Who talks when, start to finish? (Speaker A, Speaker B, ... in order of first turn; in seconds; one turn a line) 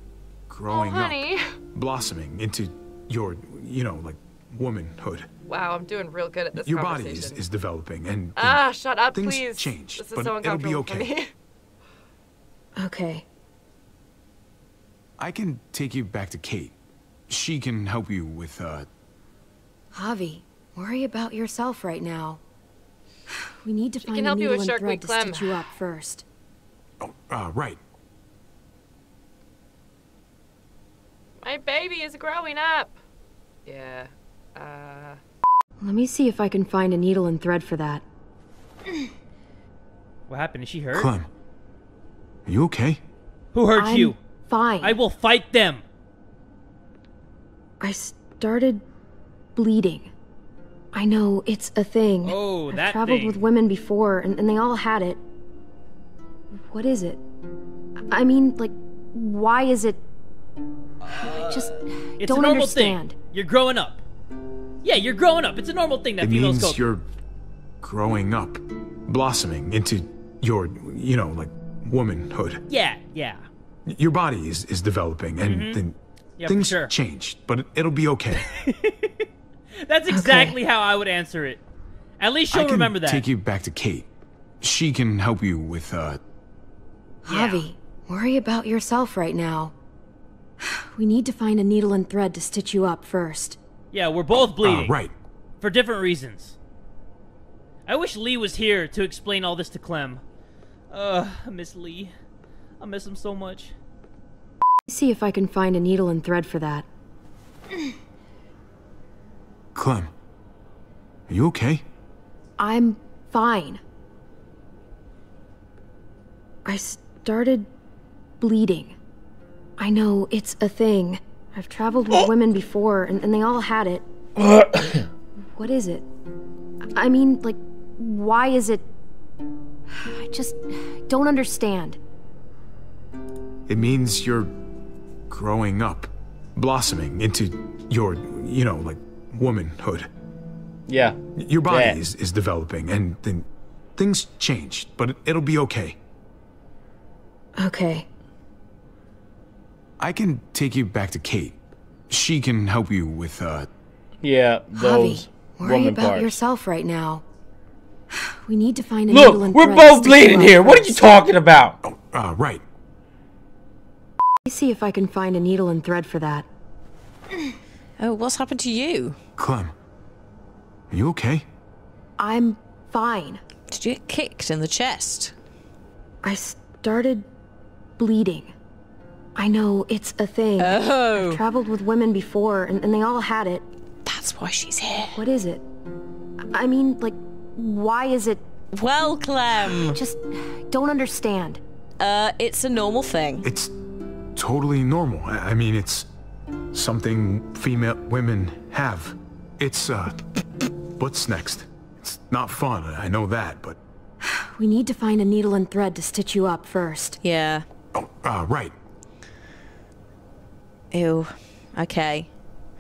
Speaker A: 0.5-5.3
Speaker B: 0.7-1.4
Speaker B: 5.5-7.4
Speaker A: 6.5-8.6
Speaker B: 8.4-11.3
Speaker A: 9.1-11.1
Speaker C: 12.8-13.3
Speaker A: 15.2-16.8
Speaker A: 17.3-18.9
Speaker C: 19.9-22.4
Speaker C: 23.6-26.2
Speaker B: 24.0-25.5
Speaker A: 27.0-27.8
Speaker B: 31.4-32.9
Speaker B: 33.7-35.2
Speaker C: 35.8-38.0
Speaker D: 40.3-41.1
Speaker A: 40.9-41.3
Speaker A: 42.5-43.0
Speaker D: 43.5-44.2
Speaker C: 43.8-45.0
Speaker D: 44.8-45.8
Speaker C: 47.8-48.8
Speaker C: 49.6-50.1
Speaker C: 50.9-55.2
Speaker D: 52.2-53.4
Speaker C: 56.7-57.2
Speaker C: 58.1-60.0
Speaker D: 61.0-61.7
Speaker C: 61.2-63.2
Speaker D: 62.2-64.0
Speaker D: 64.8-66.8
Speaker A: 66.2-67.0
Speaker A: 67.8-72.6
Speaker D: 72.7-73.4
Speaker A: 73.9-78.5
Speaker D: 75.5-75.8
Speaker D: 76.4-76.9
Speaker D: 78.5-79.2
Speaker D: 79.8-81.6
Speaker C: 80.1-80.6
Speaker D: 82.2-83.3
Speaker A: 82.5-84.1
Speaker A: 84.6-86.2
Speaker C: 87.2-89.7
Speaker D: 87.3-87.7
Speaker C: 90.9-93.6
Speaker D: 93.9-95.0
Speaker A: 94.6-95.1
Speaker D: 95.6-96.6
Speaker D: 97.9-100.2
Speaker D: 100.9-102.1
Speaker D: 102.8-103.7
Speaker C: 104.9-106.9
Speaker A: 109.8-110.1
Speaker A: 111.3-111.8
Speaker C: 112.6-113.8
Speaker C: 116.7-117.7
Speaker C: 118.4-119.0
Speaker C: 119.8-124.0
Speaker E: 124.4-125.0
Speaker C: 125.6-126.0
Speaker C: 126.9-128.9
Speaker C: 129.9-132.0
Speaker A: 133.7-134.5
Speaker A: 135.3-140.1
Speaker E: 140.9-141.2
Speaker A: 141.4-143.5
Speaker E: 141.7-142.0
Speaker A: 144.0-146.0
Speaker C: 147.6-148.1
Speaker A: 150.0-151.6
Speaker A: 152.1-153.7
Speaker E: 154.2-156.4
Speaker C: 154.7-157.2
Speaker C: 158.4-161.0
Speaker E: 159.1-161.8
Speaker A: 161.8-162.6
Speaker C: 164.4-166.5
Speaker F: 168.0-169.2
Speaker A: 169.4-169.7
Speaker A: 170.9-171.4
Speaker C: 172.2-173.4
Speaker F: 173.7-175.3
Speaker C: 176.2-177.3
Speaker C: 178.0-178.5
Speaker C: 179.4-183.7
Speaker F: 180.6-181.4
Speaker F: 184.1-185.2
Speaker C: 185.1-185.6
Speaker C: 186.5-188.4
Speaker F: 188.7-190.0
Speaker C: 189.9-191.6
Speaker F: 192.0-193.4
Speaker A: 193.4-193.7
Speaker A: 194.4-196.1
Speaker A: 196.7-200.3
Speaker A: 201.0-203.8
Speaker C: 204.4-207.2
Speaker F: 207.2-207.7
Speaker A: 207.9-208.7
Speaker F: 210.9-212.3